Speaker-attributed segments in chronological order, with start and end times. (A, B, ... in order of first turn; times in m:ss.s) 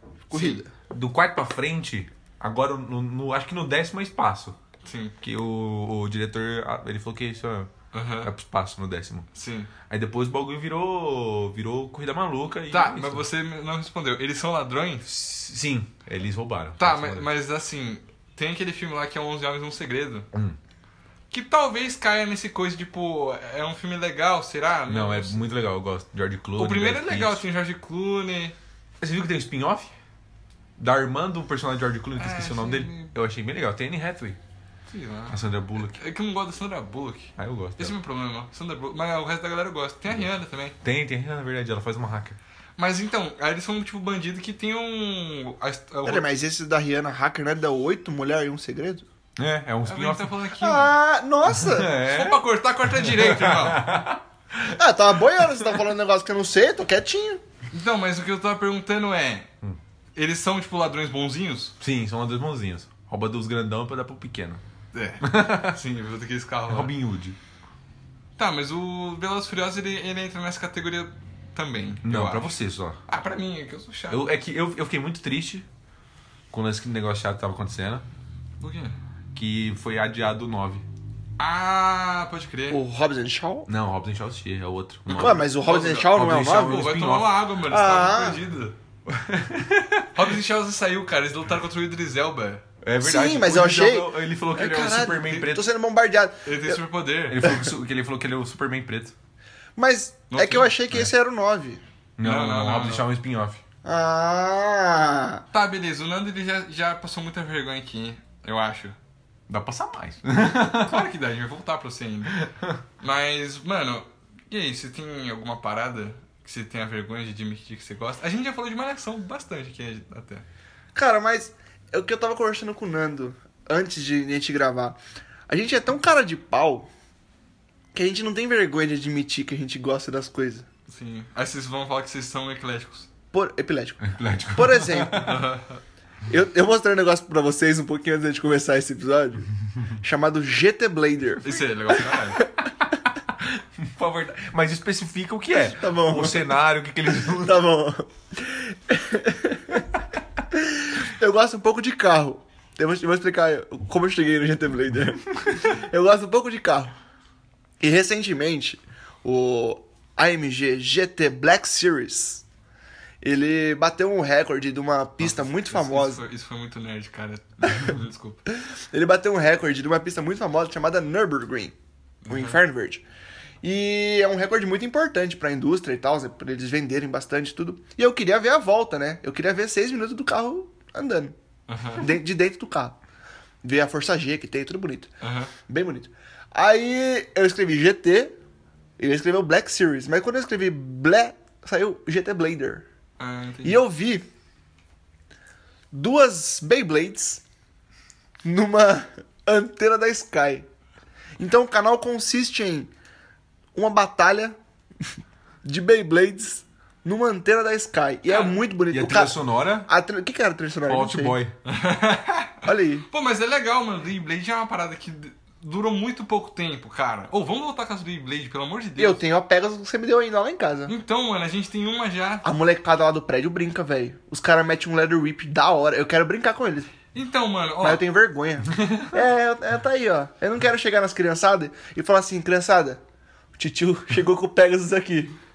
0:00.3-0:00.7 A
0:00.3-0:00.6 B
0:00.9-0:04.6 C
0:04.8-0:05.1 B
0:05.2-0:07.7 C
0:07.9-0:08.3 B
0:08.2-0:09.3 C
0:09.3-0:09.7 B
0:09.8-0:13.3 C
0:12.7-0:15.1 B
0:15.0-0:17.3 C
0:16.8-0:20.3 B
0:20.3-0:20.6 C
0:21.3-0:25.4 B
0:24.9-0:27.4 C
0:26.6-0:28.6 B
0:29.0-0:29.9 C
0:30.8-0:34.4 C
0:32.2-0:33.1 B
0:34.9-0:40.8 B
0:35.3-0:36.0 C
0:37.4-0:38.0 C
0:40.8-0:42.4 C
0:42.8-0:46.3 B
0:46.0-0:49.0 A
0:49.4-0:50.3 C
0:49.8-0:50.9 B
0:50.6-0:51.9 A
0:51.5-0:54.8 C
0:52.0-0:53.9 B
0:54.7-0:57.4 A
0:55.4-0:55.6 C
0:57.7-0:59.5 B
1:00.2-1:01.7 B
1:01.8-1:04.6 C
1:04.9-1:06.9 B
1:05.2-1:05.8 C
1:06.7-1:07.4 C
1:08.4-1:12.5 B
1:12.0-1:13.0 C
1:13.1-1:14.3 B
1:14.1-1:15.6 C
1:16.5-1:18.0 C
1:18.6-1:19.0 B
1:19.3-1:20.8 C
1:21.4-1:22.8 B
1:22.7-1:23.7 A
1:23.7-1:27.4 C
1:25.1-1:26.9 A
1:25.2-1:28.7 B
1:27.7-1:28.4 A
1:29.0-1:30.2 C
1:30.1-1:32.6 B
1:32.8-1:35.7 C
1:33.0-1:36.8 A
1:36.4-1:37.4 B
1:37.3-1:39.1 C
1:39.8-1:41.8 A
1:40.3-1:40.7 B
1:42.2-1:43.6 C
1:42.2-1:43.0 B
1:43.8-1:45.4 A
1:45.5-1:49.0 B
1:49.5-1:51.1 C
1:50.5-1:52.4 B
1:52.4-1:52.8 C
1:53.0-2:00.4 B
2:00.9-2:05.0 A
2:05.5-2:06.9 A
2:07.9-2:10.6 A
2:10.9-2:13.1 B
2:13.3-2:15.3 A
2:14.0-2:15.4 C
2:15.2-2:15.8 B
2:16.3-2:22.5 A
2:21.4-2:22.4 B
2:23.3-2:27.6 C
2:25.8-2:26.6 A
2:27.3-2:29.8 A
2:30.5-2:36.9 A
2:37.8-2:42.4 A
2:43.2-2:46.2 A
2:45.2-2:48.4 B
2:48.9-2:51.7 A
2:52.2-2:52.6 B
2:52.3-2:53.0 A
2:53.6-3:01.3 A
3:01.7-3:02.1 B
3:02.0-3:03.0 A
3:03.6-3:05.1 A
3:05.2-3:05.5 B
3:05.7-3:08.3 A
3:09.0-3:12.8 A
3:13.2-3:13.8 B
3:13.6-3:14.2 A
3:15.9-3:17.4 A
3:18.4-3:20.6 A
3:21.4-3:22.9 A
3:23.7-3:24.6 A
3:25.6-3:29.3 A
3:28.2-3:28.6 B
3:28.9-3:29.9 C
3:29.8-3:31.4 A
3:30.8-3:31.5 C
3:31.6-3:39.2 B
3:32.6-3:33.0 A
3:39.0-3:40.9 A
3:40.9-3:42.4 B
3:42.4-3:46.9 A
3:47.1-3:48.0 B
3:47.8-3:53.0 A
3:53.5-3:55.4 A